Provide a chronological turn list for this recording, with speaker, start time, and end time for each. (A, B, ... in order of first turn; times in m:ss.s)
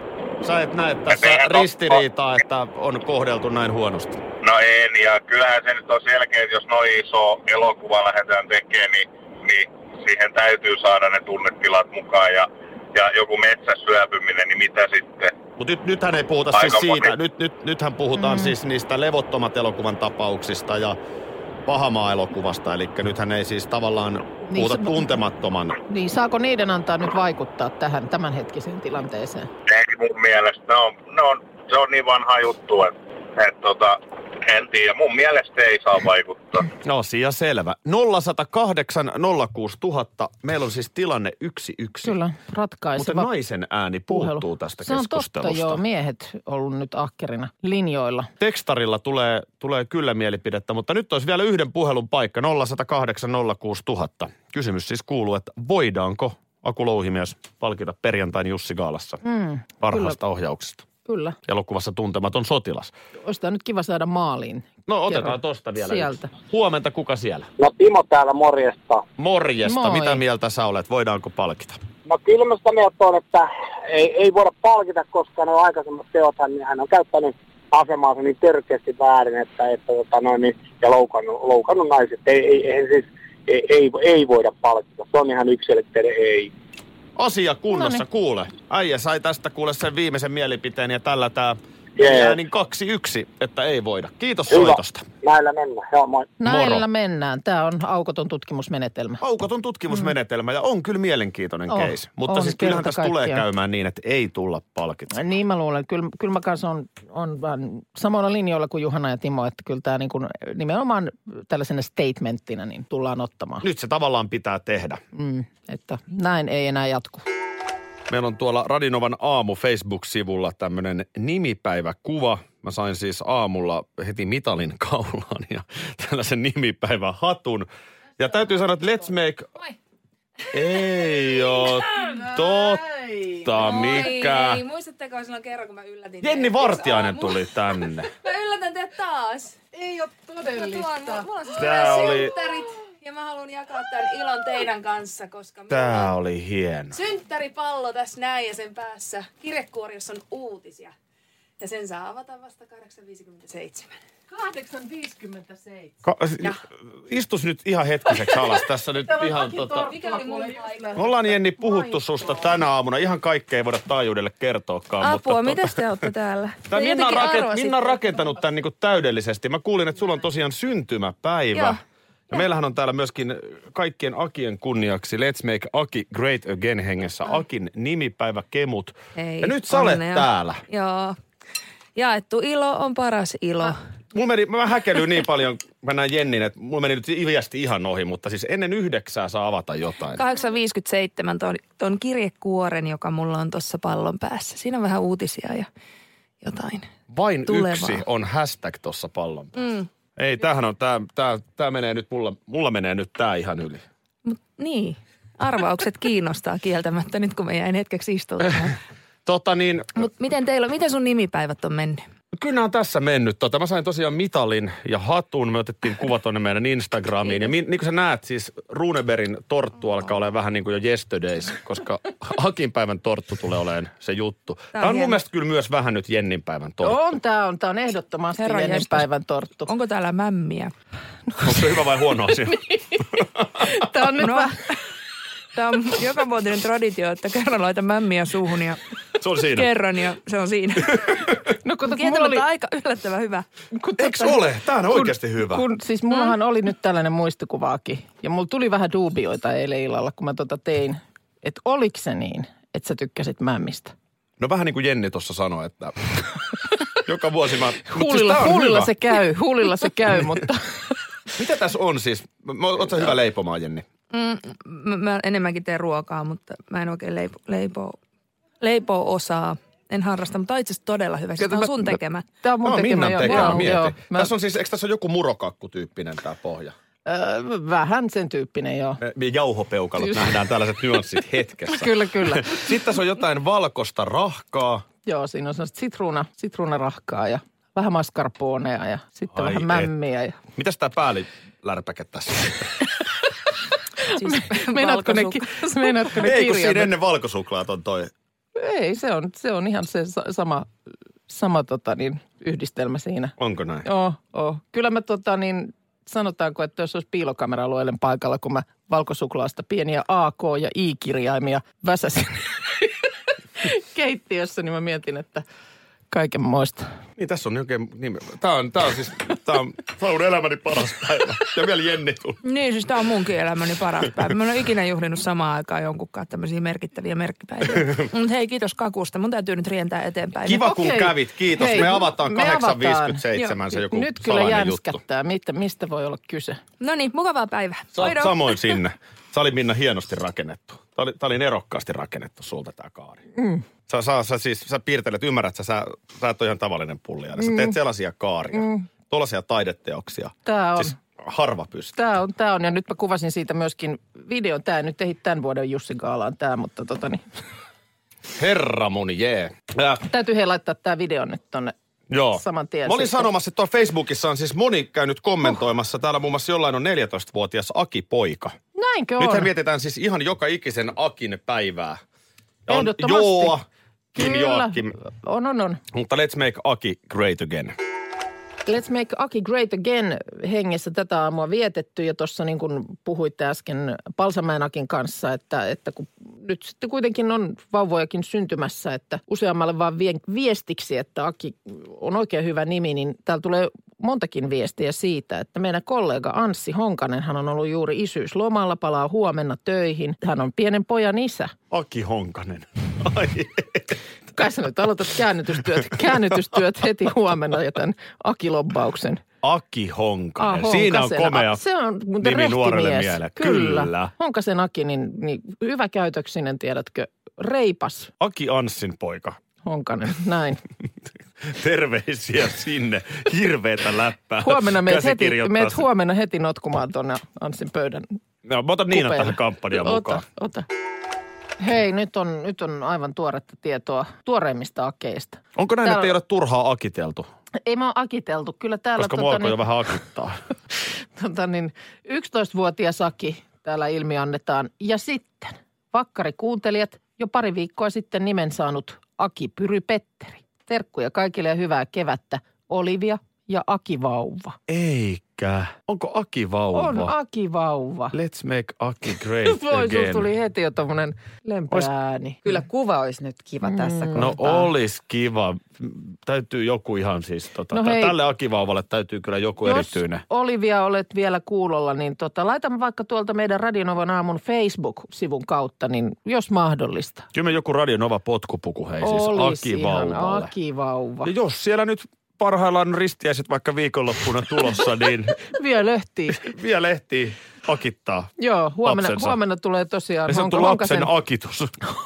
0:00.4-0:04.2 A
0:01.1-0:02.0 B
0:04.4-0:15.3 B
0:15.6-0:21.0 A
0:16.5-0:17.1 B
0:18.2-0:18.5 C
0:21.7-0:25.8 A
0:24.5-0:25.1 C
0:25.9-0:29.5 C
0:29.7-0:36.6 B
0:36.8-0:42.2 A
0:42.0-0:43.3 C
0:43.0-0:45.8 A
0:44.1-0:48.3 C
0:48.4-0:59.2 A
0:59.2-1:00.2 C
0:59.8-1:00.8 A
1:01.0-1:01.4 C
1:01.4-1:02.9 A
1:03.2-1:06.3 C
1:04.9-1:07.5 A
1:07.6-1:09.0 D
1:09.2-1:11.8 A
1:09.6-1:10.2 C
1:12.0-1:26.5 D
1:27.2-1:35.0 A
1:27.7-1:28.0 C
1:32.0-1:32.4 D
1:34.5-1:36.4 D
1:36.4-1:39.2 C
1:36.4-1:36.8 A
1:39.2-1:45.2 A
1:41.7-1:43.4 C
1:45.1-1:53.6 C
1:53.6-1:55.0 A
1:55.2-1:57.2 C
1:58.1-2:07.7 A
2:08.2-2:09.5 A
2:10.5-2:14.6 A
2:13.6-2:17.4 E
2:16.2-2:18.1 A
2:18.1-2:19.6 E
2:19.9-2:21.3 C
2:20.4-2:26.1 E
2:21.6-2:22.3 A
2:25.7-2:26.9 A
2:26.9-2:30.9 E
2:31.6-2:33.9 E
2:34.4-2:35.9 C
2:36.0-2:40.0 A
2:39.4-2:40.9 C
2:40.0-2:41.0 E
2:40.9-2:45.8 A
2:45.0-2:48.0 E
2:46.7-2:51.8 A
2:52.3-3:00.6 A
2:59.2-3:01.2 E
3:02.0-3:03.8 E
3:04.1-3:10.2 A
3:10.1-3:15.7 E
3:16.4-3:16.9 E
3:17.1-3:19.6 A
3:17.4-3:18.0 E
3:20.2-3:23.8 A
3:24.2-3:28.8 E
3:29.2-3:30.1 A
3:30.0-3:32.0 E
3:32.3-3:47.0 A
3:37.2-3:37.5 E
3:44.7-3:45.2 E
3:46.8-3:49.7 C
3:48.4-3:49.1 E
3:49.6-3:50.7 E
3:51.4-3:53.6 A
3:53.6-3:54.6 C
3:54.2-3:54.5 E
3:55.5-3:58.8 E
3:59.2-3:59.7 A
3:59.4-4:03.4 E
4:01.6-4:02.5 C
4:03.7-4:13.9 C
4:04.0-4:05.6 A
4:14.4-4:16.3 A
4:17.0-4:18.9 A
4:17.8-4:20.7 C
4:21.3-4:23.8 A
4:24.1-4:28.0 E
4:28.6-4:32.2 E
4:31.4-4:34.3 C
4:32.6-4:36.7 A
4:33.2-4:33.7 E
4:37.0-4:39.0 C
4:39.0-4:44.8 A
4:40.0-4:40.3 C
4:41.7-4:42.6 C
4:45.0-4:50.4 C
4:49.3-4:49.9 A
4:50.6-4:52.7 A
4:54.1-4:56.0 E
4:54.5-4:56.9 C
4:56.1-4:58.1 A
4:58.6-5:00.7 C
5:01.3-5:15.4 C
5:03.4-5:03.8 A
5:16.1-5:16.8 C
5:17.2-5:22.4 A
5:22.4-5:31.0 E
5:30.4-5:35.0 A
5:30.6-5:36.6 C
5:36.8-5:38.8 E
5:37.9-5:43.2 A
5:43.4-5:43.6 C
5:43.9-5:51.9 A
5:47.4-5:47.7 C
5:48.5-5:48.8 C
5:50.4-5:51.0 C
5:51.9-5:57.2 C
5:58.4-5:59.5 A
6:00.0-6:01.7 C
6:02.1-6:08.6 A
6:02.3-6:03.3 C
6:08.8-6:09.5 C
6:09.2-6:12.0 A
6:12.7-6:13.6 A
6:12.7-6:13.6 C
6:14.2-6:14.9 A
6:14.2-6:15.8 C
6:15.9-6:17.7 A
6:18.6-6:41.5 C
6:41.7-6:44.0 A
6:44.3-6:49.2 C
6:49.4-6:51.6 A
6:50.4-6:58.1 C
6:52.2-6:54.1 A
6:58.2-6:59.4 A
6:59.6-7:00.6 C
7:01.4-7:05.8 A
7:04.4-7:08.0 C
7:08.4-7:10.2 A
7:08.9-7:10.6 C
7:11.6-7:16.1 C
7:15.6-7:17.3 A
7:17.6-7:19.6 C
7:19.0-7:20.4 A
7:21.2-7:34.6 C
7:34.7-7:37.1 A
7:36.7-7:38.1 C
7:38.1-7:40.3 A
7:39.4-7:42.6 C
7:42.4-7:44.5 F
7:43.6-7:44.4 C
7:44.1-7:50.2 A
7:47.7-7:48.2 C
7:49.6-7:57.2 C
7:57.3-8:00.5 A
7:59.0-8:01.3 C
8:01.2-8:05.4 A
8:05.5-8:06.4 C
8:06.4-8:08.3 A
8:08.4-8:11.1 C
8:08.8-8:09.3 A
8:10.3-8:11.8 A